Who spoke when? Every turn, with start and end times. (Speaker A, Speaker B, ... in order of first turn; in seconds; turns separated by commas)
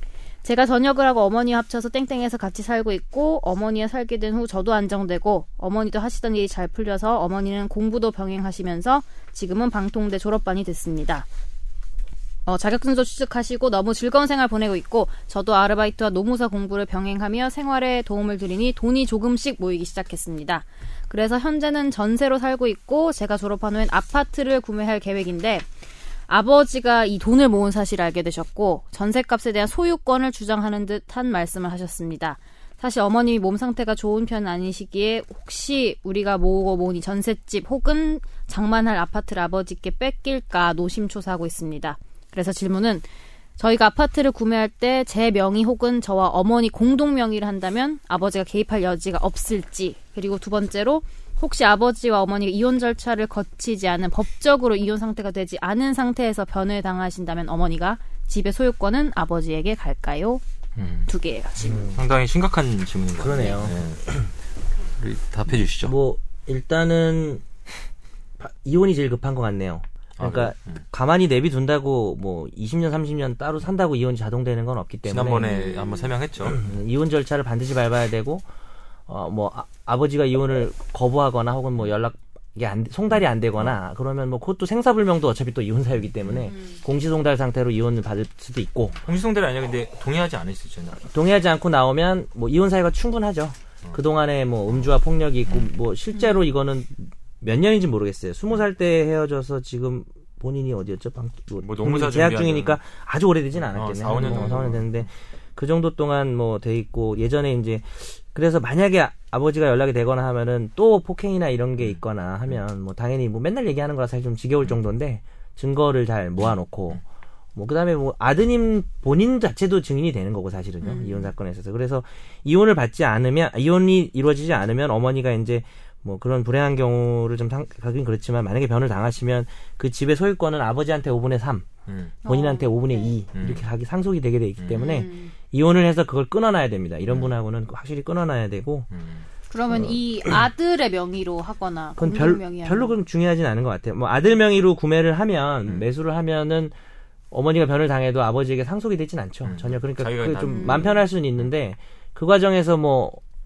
Speaker A: 0.4-11.2, Speaker A: 12.4-25.6, Speaker A: 26.3-43.0, Speaker A: 43.6-60.4, Speaker B: 60.8-61.1, Speaker A: 61.1-61.9, Speaker C: 61.6-62.0, Speaker B: 61.8-64.0, Speaker C: 63.2-63.8, Speaker B: 65.0-65.9, Speaker C: 65.8-67.4, Speaker C: 68.4-75.6, Speaker B: 70.2-70.8, Speaker B: 75.0-76.6, Speaker A: 75.5-76.1, Speaker C: 76.5-78.5, Speaker C: 79.1-89.0, Speaker B: 86.2-86.5, Speaker A: 86.5-86.8, Speaker B: 89.0-91.0, Speaker C: 91.0-117.0, Speaker B: 101.6-102.8, Speaker B: 103.7-105.0, Speaker A: 104.1-104.6, Speaker C: 117.5-131.7, Speaker A: 120.8-121.3, Speaker B: 131.9-132.1, Speaker A: 132.2-133.2, Speaker C: 132.2-138.9, Speaker B: 133.3-133.6, Speaker B: 134.6-134.9, Speaker A: 134.7-135.3, Speaker B: 137.1-137.3, Speaker B: 138.9-139.2, Speaker A: 139.5-142.9, Speaker C: 142.0-146.7, Speaker C: 147.3-153.2, Speaker B: 149.4-150.9, Speaker A: 150.4-151.0